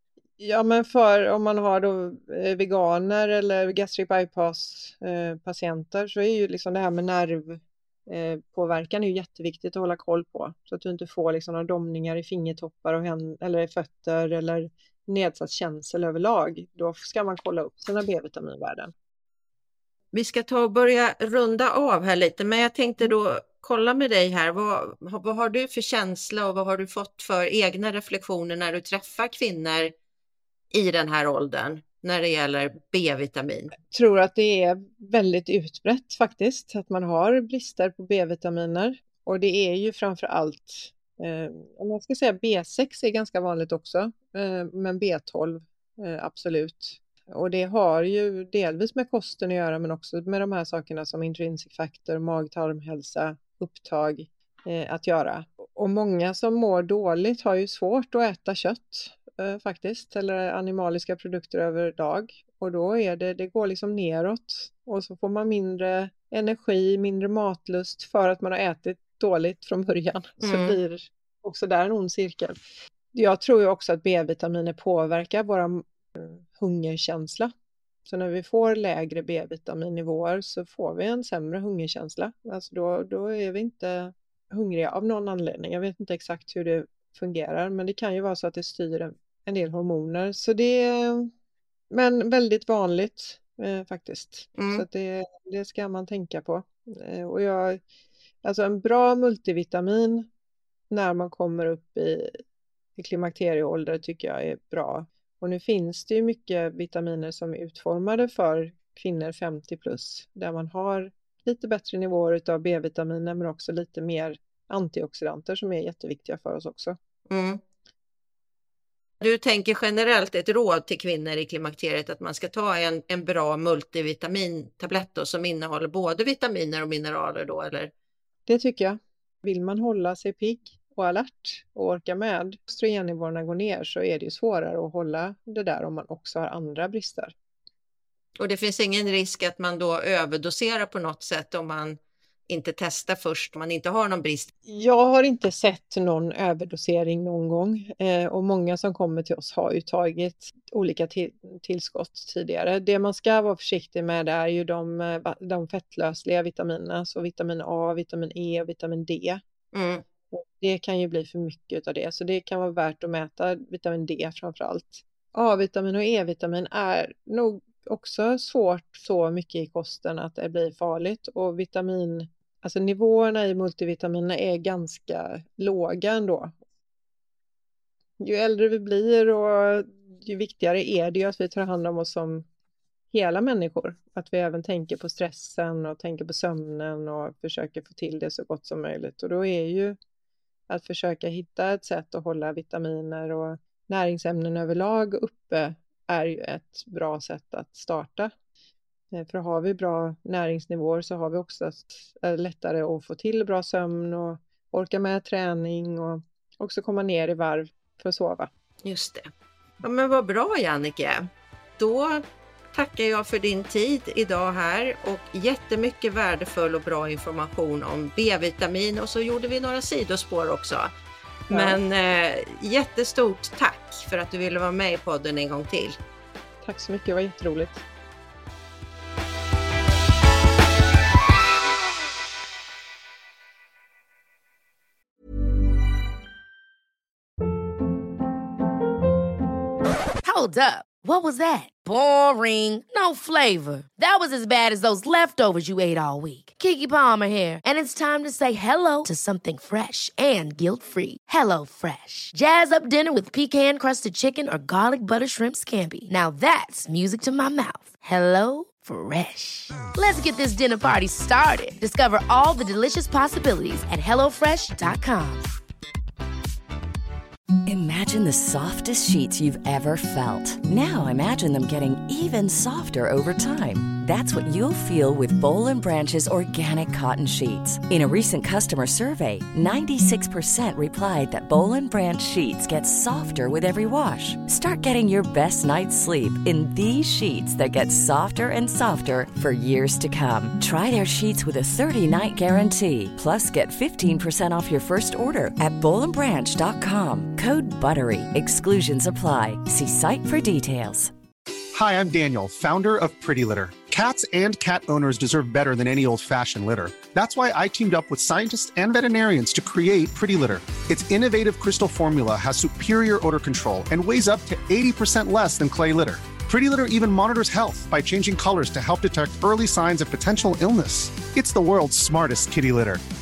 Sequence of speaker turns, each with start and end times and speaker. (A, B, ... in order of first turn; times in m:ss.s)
0:00.4-0:18.9 A
0:20.1-0:29.9 B
0:30.7-0:33.7 B
0:33.9-1:12.6 A
1:10.4-1:10.8 B
1:13.1-1:17.5 A
1:18.1-1:31.3 A
1:31.9-1:37.8 A
1:34.6-1:34.8 B
1:38.4-1:40.3 A
1:40.9-1:42.4 A
1:43.0-1:57.0 A
1:57.3-1:57.6 B
1:59.2-2:07.9 B
2:08.5-2:17.3 A
2:18.4-2:24.5 B
2:24.7-2:39.4 A
2:39.7-2:40.0 B
2:40.3-2:56.5 A
2:58.2-3:02.4 A
3:03.1-3:10.0 A
3:10.7-3:18.3 A
3:19.1-3:28.5 A
3:28.8-3:29.3 B
3:29.8-3:40.9 B
3:41.5-3:46.0 B
3:41.5-3:41.8 A
3:46.6-3:47.8 A
4:00.2-4:25.5 C
4:27.7-5:01.1 D
5:01.7-5:23.0 E